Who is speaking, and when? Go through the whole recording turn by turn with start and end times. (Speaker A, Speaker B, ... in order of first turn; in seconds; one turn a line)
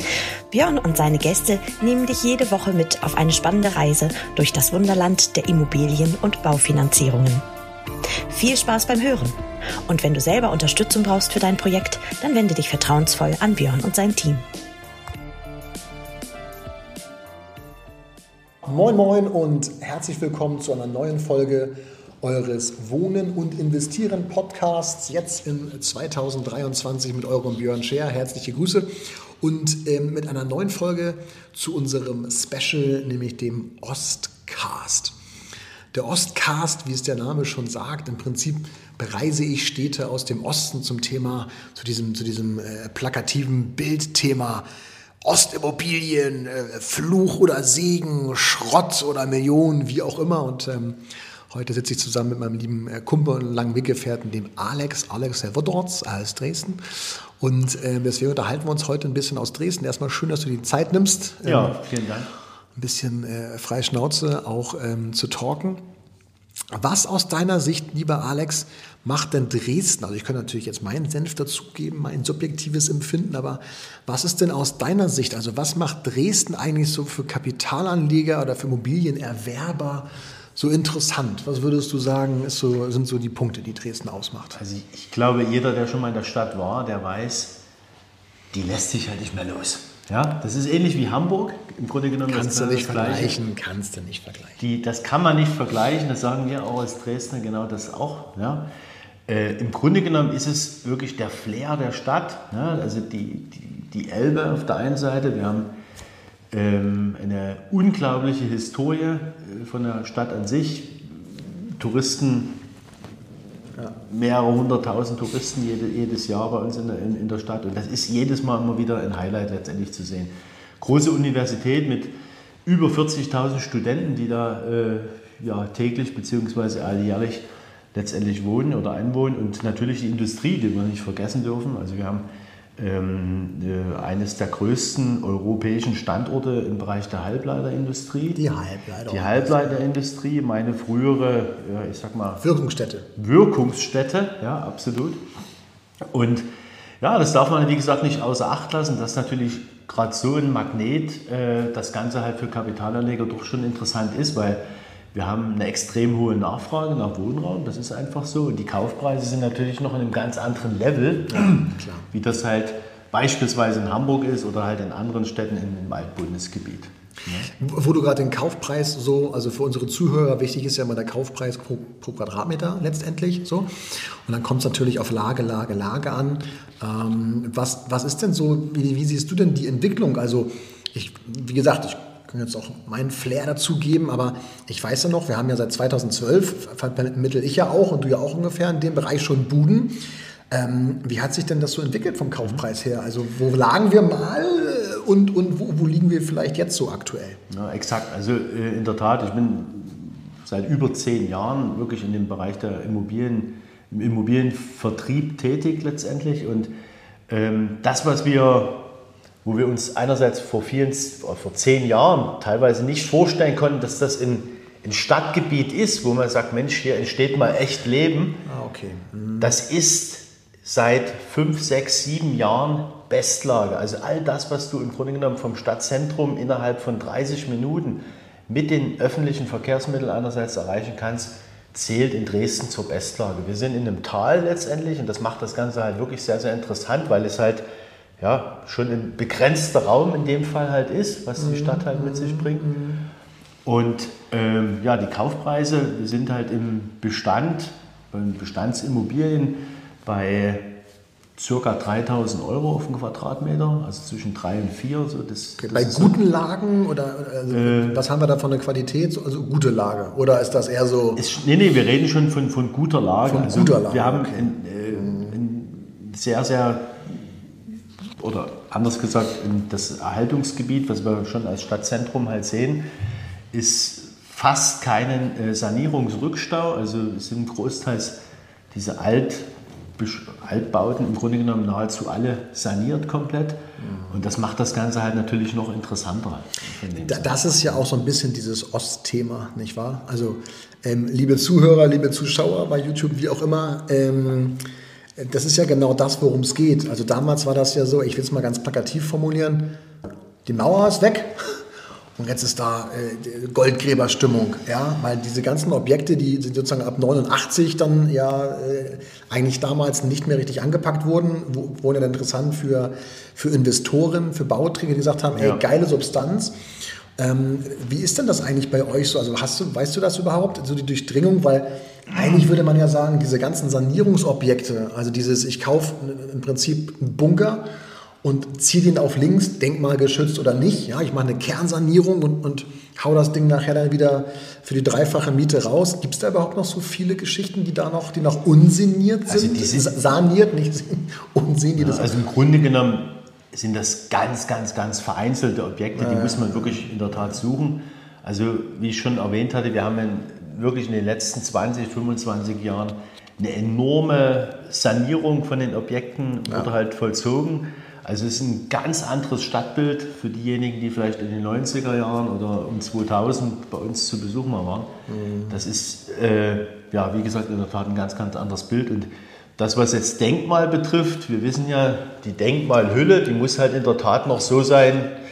Speaker A: 0.5-7.4
Speaker A: 8.3-9.3
Speaker A: 9.9-14.4
Speaker B: 18.6-28.9
Speaker B: 29.4-35.1
Speaker B: 35.9-44.6
Speaker B: 45.2-51.0
Speaker B: 51.5-61.8
Speaker C: 61.4-62.3
Speaker B: 62.8-65.8
Speaker B: 66.7-84.6
Speaker C: 84.6-87.6
Speaker C: 88.5-93.4
Speaker B: 92.3-94.6
Speaker C: 94.6-98.7
Speaker C: 99.3-105.7
Speaker C: 106.5-112.6
Speaker C: 113.9-122.1
Speaker C: 122.7-132.3
Speaker C: 132.8-138.4
Speaker B: 138.3-139.8
Speaker C: 139.1-142.4
Speaker B: 142.4-143.1
Speaker C: 143.2-145.2
Speaker C: 146.1-146.5
Speaker C: 147.0-154.6
Speaker C: 155.1-167.5
Speaker B: 161.3-162.1
Speaker B: 167.5-173.7
Speaker B: 174.2-190.0
Speaker B: 190.5-197.4
Speaker C: 197.5-206.7
Speaker C: 207.3-208.8
Speaker C: 209.4-218.4
Speaker B: 218.4-219.6
Speaker C: 219.4-237.6
Speaker C: 238.2-242.7
Speaker B: 241.4-243.1
Speaker C: 243.6-250.7
Speaker C: 251.4-256.2
Speaker B: 255.6-261.2
Speaker C: 257.5-258.0
Speaker C: 261.1-267.4
Speaker B: 263.2-265.4
Speaker C: 268.2-272.8
Speaker C: 273.5-278.2
Speaker C: 278.7-283.6
Speaker B: 283.8-284.2
Speaker C: 284.1-287.8
Speaker B: 286.9-294.6
Speaker B: 295.2-299.7
Speaker B: 300.4-301.6
Speaker B: 302.2-316.5
Speaker C: 315.3-315.6
Speaker B: 317.2-327.6
Speaker B: 328.2-342.1
Speaker C: 339.3-339.9
Speaker C: 341.8-364.9
Speaker B: 345.9-347.2
Speaker B: 365.1-365.6
Speaker C: 365.5-375.1